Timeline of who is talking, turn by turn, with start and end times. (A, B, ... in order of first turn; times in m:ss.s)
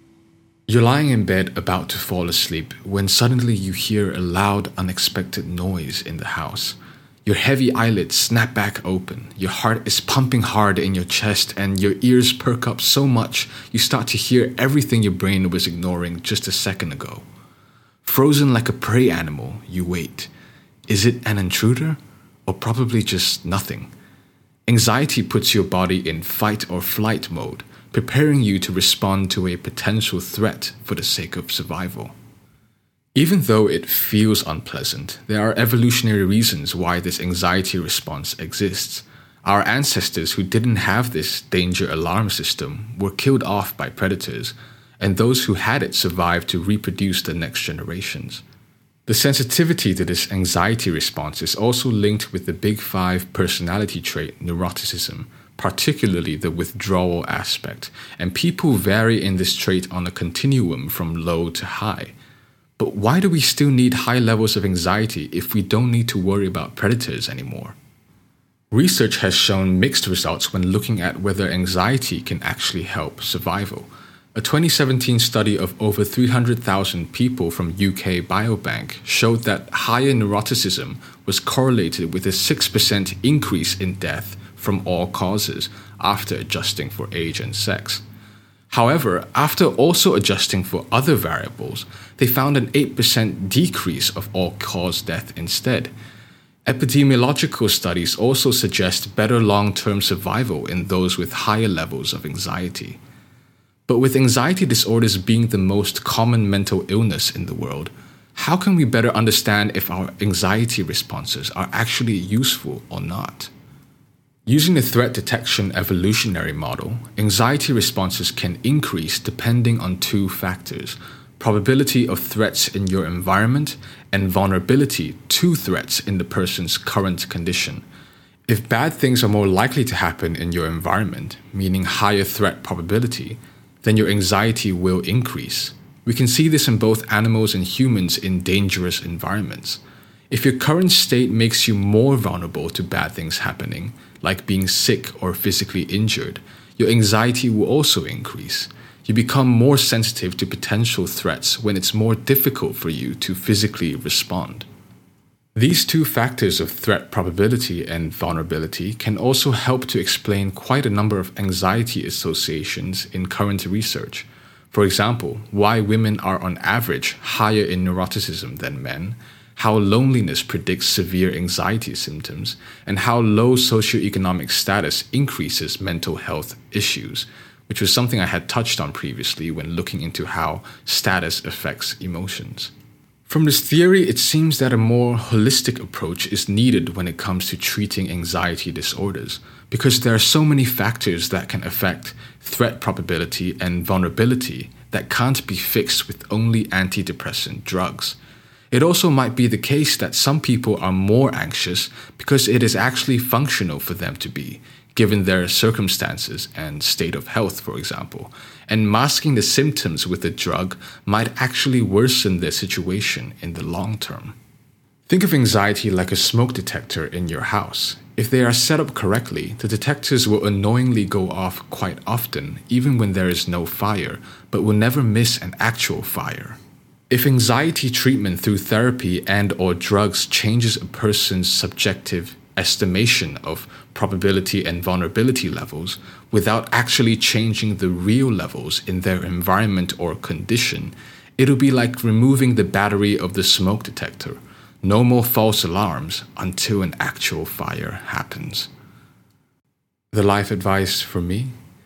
0:00.7-0:17.2 A
0:18.0-0:20.3 A
0:20.9-0:23.9 A
0:24.7-0:32.1 A
0:33.2-0:48.4 A
0:49.1-1:02.1 A
1:02.8-1:07.7 A
1:08.7-1:28.0 A
1:28.7-1:35.9 A
1:36.6-1:43.0 A
1:43.9-1:53.5 A
1:54.5-2:07.8 A
2:08.5-2:34.6 A
2:35.6-3:02.7 A
3:03.3-3:18.2 A
3:18.7-3:34.3 A
3:35.1-3:46.6 A
3:47.1-4:08.7 A
4:10.1-4:11.5 A